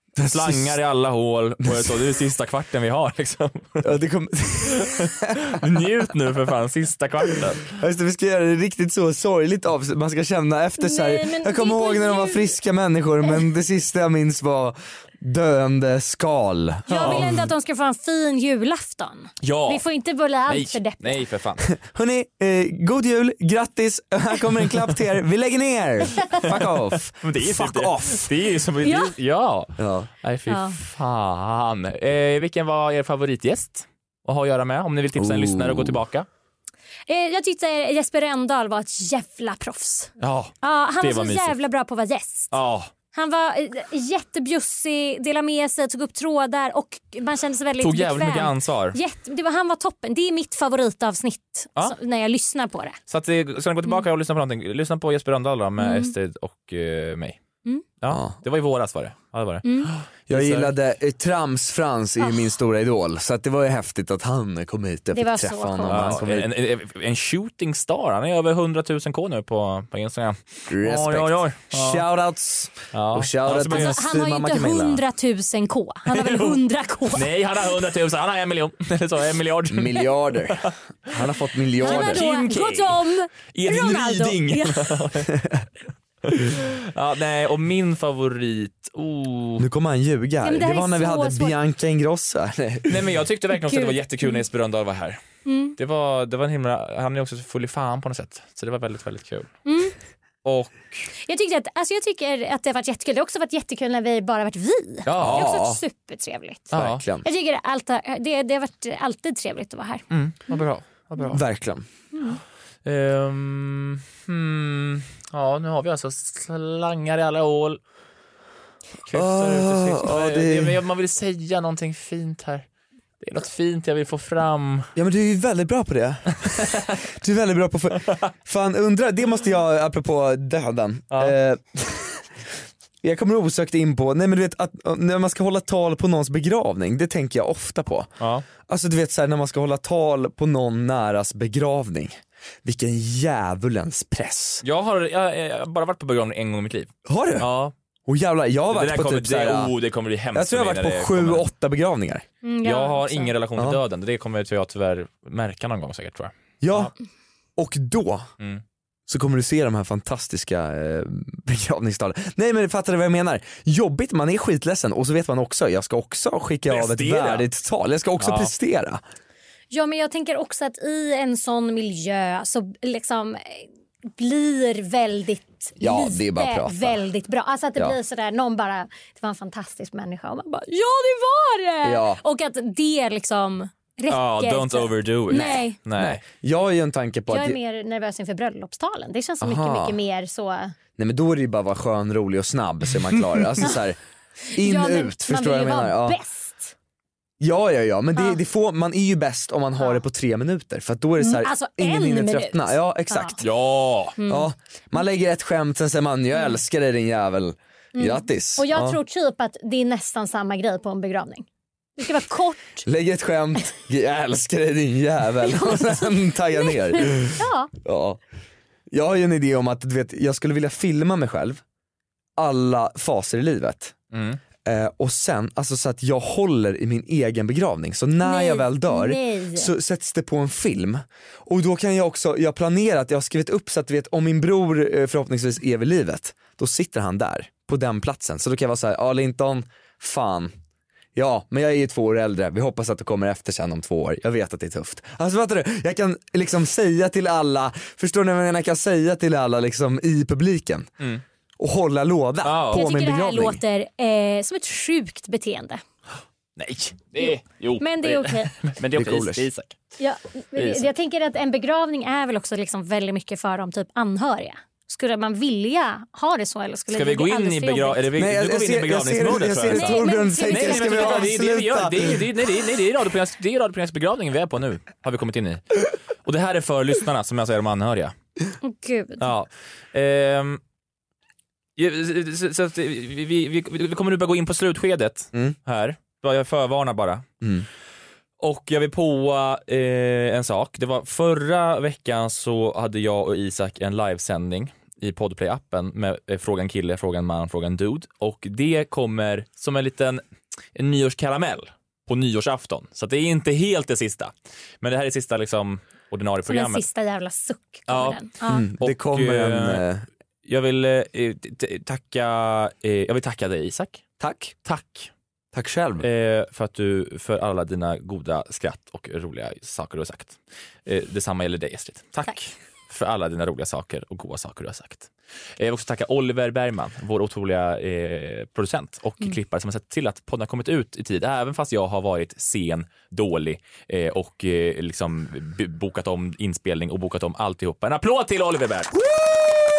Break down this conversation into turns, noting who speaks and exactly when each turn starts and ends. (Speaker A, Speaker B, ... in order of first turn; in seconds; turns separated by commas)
Speaker A: 0.2-0.8, Speaker B: 0.2-3.9, Speaker A: 1.6-2.0, Speaker A: 3.8-5.6, Speaker B: 4.7-7.7, Speaker A: 7.8-17.4, Speaker C: 10.8-12.5, Speaker C: 16.9-21.2, Speaker B: 17.0-17.4, Speaker B: 19.4-19.9, Speaker B: 20.5-21.7, Speaker A: 21.7-28.3, Speaker B: 26.4-36.3, Speaker C: 28.9-29.1, Speaker A: 29.8-30.1, Speaker C: 30.5-30.8, Speaker A: 35.2-36.0, Speaker C: 37.1-42.5, Speaker B: 40.2-41.6, Speaker B: 42.5-42.9, Speaker C: 43.1-53.0, Speaker B: 47.8-49.0, Speaker B: 53.1-57.4, Speaker C: 55.8-56.1, Speaker B: 58.0-60.7, Speaker A: 58.1-58.4, Speaker C: 59.6-59.9, Speaker A: 60.3-66.5, Speaker C: 62.2-62.5, Speaker C: 65.1-66.2, Speaker B: 65.9-72.0, Speaker A: 70.7-75.0, Speaker B: 72.9-74.0, Speaker C: 73.6-77.3, Speaker B: 76.1-76.6, Speaker B: 77.1-80.7, Speaker A: 79.7-82.3, Speaker C: 81.8-85.0, Speaker B: 81.8-85.3, Speaker B: 86.2-89.7, Speaker A: 89.6-93.2, Speaker C: 90.4-91.6, Speaker B: 92.9-95.2, Speaker C: 93.6-94.4, Speaker C: 95.5-95.8, Speaker B: 95.8-99.5, Speaker C: 99.7-99.9, Speaker B: 100.4-101.1, Speaker C: 101.2-106.7, Speaker B: 105.0-105.5, Speaker A: 105.2-105.8, Speaker B: 106.7-107.0, Speaker A: 106.7-107.3, Speaker C: 107.2-110.0, Speaker B: 110.1-111.4, Speaker A: 111.3-111.9, Speaker B: 112.8-117.8, Speaker B: 119.1-122.7, Speaker A: 119.1-120.8, Speaker B: 123.2-124.9, Speaker A: 125.0-132.2, Speaker A: 133.0-138.1, Speaker B: 138.2-138.5, Speaker A: 138.6-144.6, Speaker B: 144.6-147.7, Speaker A: 147.1-147.5, Speaker A: 148.1-149.7, Speaker B: 148.7-151.4, Speaker A: 150.3-152.2, Speaker C: 152.4-153.3, Speaker B: 152.6-156.9, Speaker A: 156.6-156.9, Speaker A: 157.6-158.3, Speaker A: 159.1-169.0, Speaker B: 166.7-167.5, Speaker B: 168.2-168.5, Speaker C: 169.7-185.8, Speaker A: 175.8-177.0, Speaker A: 181.8-182.2, Speaker B: 184.1-186.2, Speaker A: 186.0-187.6, Speaker C: 187.3-190.7, Speaker A: 189.4-190.0, Speaker A: 191.0-194.0, Speaker A: 194.5-196.2, Speaker C: 194.6-196.7, Speaker A: 197.4-203.5, Speaker C: 198.1-198.4, Speaker C: 199.8-200.0, Speaker C: 201.2-203.4, Speaker B: 203.4-204.2, Speaker C: 204.2-204.5, Speaker A: 204.3-209.0, Speaker C: 207.9-212.8, Speaker A: 212.8-218.2, Speaker C: 215.4-217.7, Speaker A: 218.9-221.6, Speaker A: 222.4-223.9, Speaker B: 224.1-224.4, Speaker A: 224.7-240.5, Speaker C: 228.2-229.7, Speaker A: 241.2-250.9, Speaker A: 251.6-253.6, Speaker B: 252.4-252.8, Speaker C: 252.7-255.8, Speaker B: 256.6-259.8, Speaker C: 257.2-258.5, Speaker A: 258.9-259.5, Speaker C: 260.0-268.0, Speaker B: 260.6-260.9, Speaker B: 266.9-275.6, Speaker A: 268.2-272.3, Speaker C: 269.8-271.4, Speaker B: 276.2-278.1, Speaker C: 278.6-279.3, Speaker B: 279.2-280.6, Speaker B: 281.8-287.3, Speaker B: 288.4-300.2, Speaker B: 300.8-306.8, Speaker C: 306.5-308.6, Speaker B: 307.9-308.2, Speaker A: 308.4-310.1, Speaker B: 308.8-309.9, Speaker B: 310.4-315.1, Speaker A: 314.2-314.5, Speaker A: 315.5-316.1, Speaker B: 316.0-338.9